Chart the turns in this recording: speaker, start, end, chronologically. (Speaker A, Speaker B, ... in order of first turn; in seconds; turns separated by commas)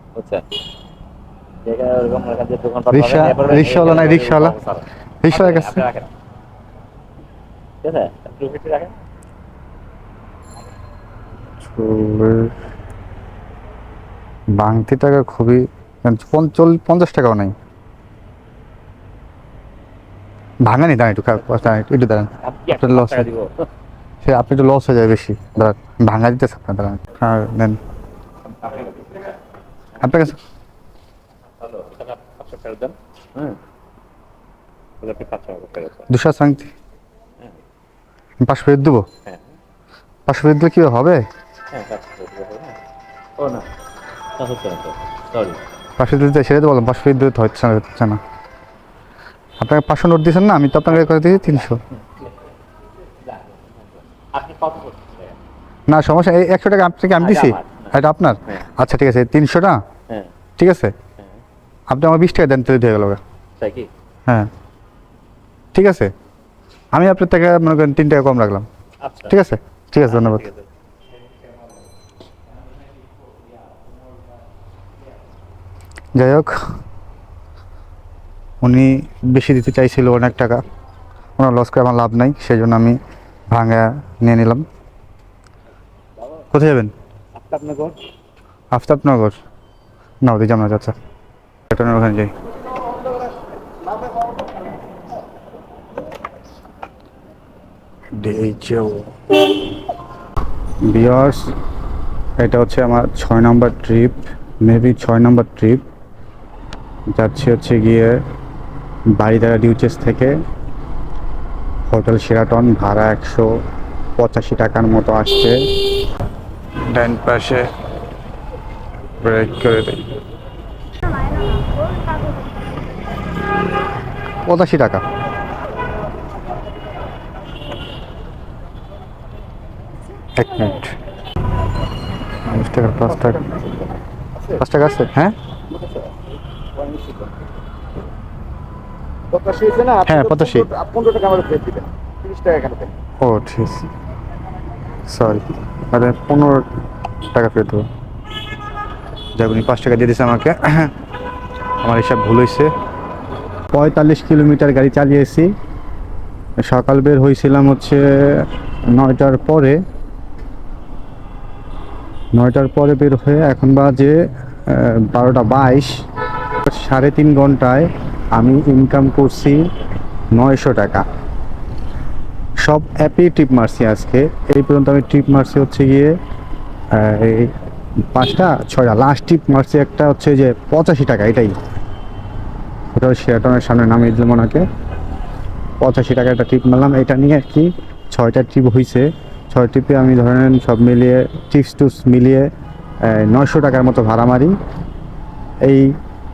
Speaker A: 0.2-0.5, Speaker A: 1.6-6.1, Speaker B: 2.9-4.5, Speaker B: 5.2-5.8, Speaker A: 7.8-9.0, Speaker B: 11.7-12.6, Speaker B: 14.6-17.5, Speaker B: 20.7-23.3, Speaker A: 22.4-23.7, Speaker B: 24.2-27.8, Speaker A: 28.5-29.3, Speaker B: 30.0-30.4, Speaker A: 31.6-33.6, Speaker A: 35.0-36.1, Speaker B: 36.1-36.7, Speaker B: 38.4-39.0, Speaker B: 40.3-41.2, Speaker A: 41.7-42.8, Speaker A: 43.4-43.7, Speaker A: 44.4-45.6, Speaker B: 46.0-48.2, Speaker B: 49.6-51.8, Speaker A: 51.2-51.6, Speaker A: 53.2-55.4, Speaker B: 55.9-59.8, Speaker A: 57.2-57.9, Speaker B: 60.6-60.9, Speaker B: 61.9-63.2, Speaker A: 63.6-63.9, Speaker B: 65.8-66.1, Speaker B: 66.9-68.7, Speaker A: 69.0-69.3, Speaker B: 69.3-70.5, Speaker A: 70.1-70.7, Speaker B: 76.2-76.5, Speaker B: 78.6-80.6, Speaker B: 81.4-83.0, Speaker B: 83.5-84.7, Speaker B: 86.5-86.9, Speaker A: 87.4-88.0, Speaker B: 88.7-89.4, Speaker B: 90.2-91.0, Speaker B: 91.7-92.3, Speaker B: 98.2-99.1, Speaker B: 100.9-101.5, Speaker B: 102.4-105.8, Speaker B: 107.1-108.2, Speaker B: 109.2-110.3, Speaker B: 111.9-113.5, Speaker B: 114.2-115.6, Speaker B: 116.9-117.7, Speaker B: 119.2-120.1, Speaker B: 124.5-125.0, Speaker B: 130.4-131.0, Speaker B: 132.4-133.5, Speaker B: 134.5-135.4, Speaker C: 136.8-137.2, Speaker C: 139.3-140.1, Speaker B: 140.1-140.7, Speaker C: 140.7-142.9, Speaker B: 143.2-143.9, Speaker B: 145.1-146.7, Speaker B: 147.3-147.9, Speaker B: 149.4-150.9, Speaker B: 151.8-152.7, Speaker B: 153.7-155.5, Speaker B: 156.7-159.8, Speaker B: 162.3-164.1, Speaker B: 164.7-165.9, Speaker B: 166.6-169.6, Speaker B: 170.3-171.0, Speaker B: 172.6-176.1, Speaker B: 176.9-177.5, Speaker B: 178.1-181.6, Speaker B: 183.0-184.6, Speaker B: 185.8-192.5, Speaker B: 193.1-194.6, Speaker B: 195.7-195.9